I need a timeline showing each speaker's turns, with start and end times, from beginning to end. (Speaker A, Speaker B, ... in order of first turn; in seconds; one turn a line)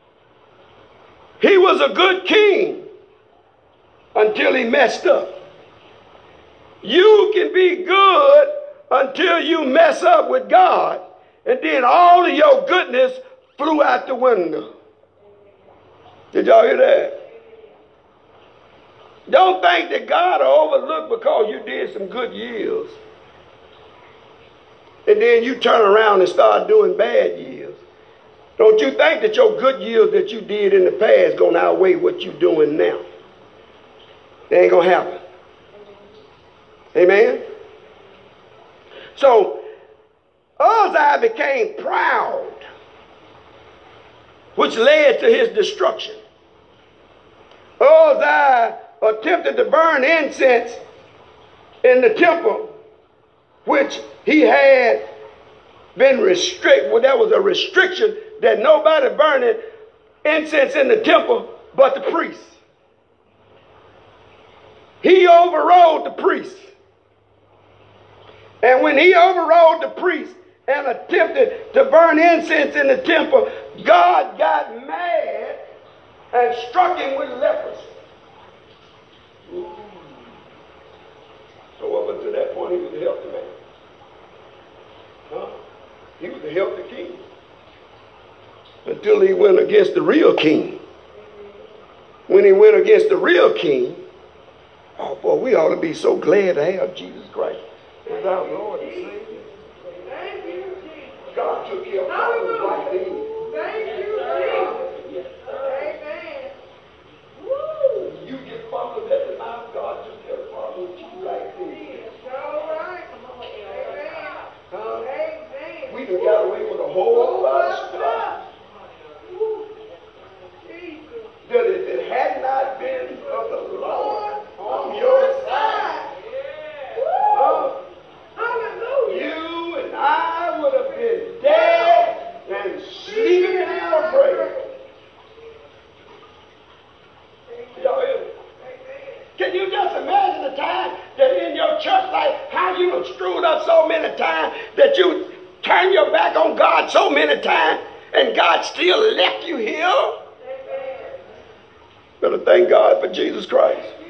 Speaker A: 1.4-2.9
Speaker A: 4.1-5.3
Speaker A: 6.8-14.7
Speaker A: 16.3-17.1
Speaker A: 19.3-23.0
Speaker A: 25.1-27.8
Speaker A: 28.6-33.0
Speaker A: 34.5-35.2
Speaker A: 36.9-37.4
Speaker A: 39.1-39.6
Speaker A: 40.6-42.6
Speaker A: 44.5-46.2
Speaker A: 47.8-50.8
Speaker A: 51.8-52.7
Speaker A: 53.6-55.0
Speaker A: 55.9-59.6
Speaker A: 60.2-62.6
Speaker A: 65.0-66.7
Speaker A: 68.6-75.6
Speaker A: 76.3-77.9
Speaker A: 79.5-80.2
Speaker A: 81.8-83.5
Speaker A: 85.3-85.6
Speaker A: 86.2-87.2
Speaker A: 88.8-90.8
Speaker A: 92.3-94.0
Speaker A: 95.0-99.5
Speaker B: 99.9-101.3
Speaker A: 101.3-103.5
Speaker B: 102.3-104.8
Speaker A: 104.3-105.5
Speaker B: 105.5-106.5
Speaker A: 107.7-112.0
Speaker B: 111.9-114.4
Speaker A: 114.7-115.1
Speaker B: 115.1-116.4
Speaker A: 115.9-118.4
Speaker B: 117.1-118.4
Speaker B: 119.3-119.7
Speaker B: 120.6-121.3
Speaker A: 121.4-126.1
Speaker B: 124.7-126.1
Speaker B: 126.9-127.7
Speaker A: 127.3-127.8
Speaker B: 128.3-129.3
Speaker A: 129.0-134.7
Speaker B: 131.7-132.1
Speaker B: 133.2-134.5
Speaker B: 137.5-138.0
Speaker A: 137.7-138.3
Speaker B: 138.6-139.2
Speaker A: 139.4-150.2
Speaker B: 150.4-151.2
Speaker A: 152.2-153.9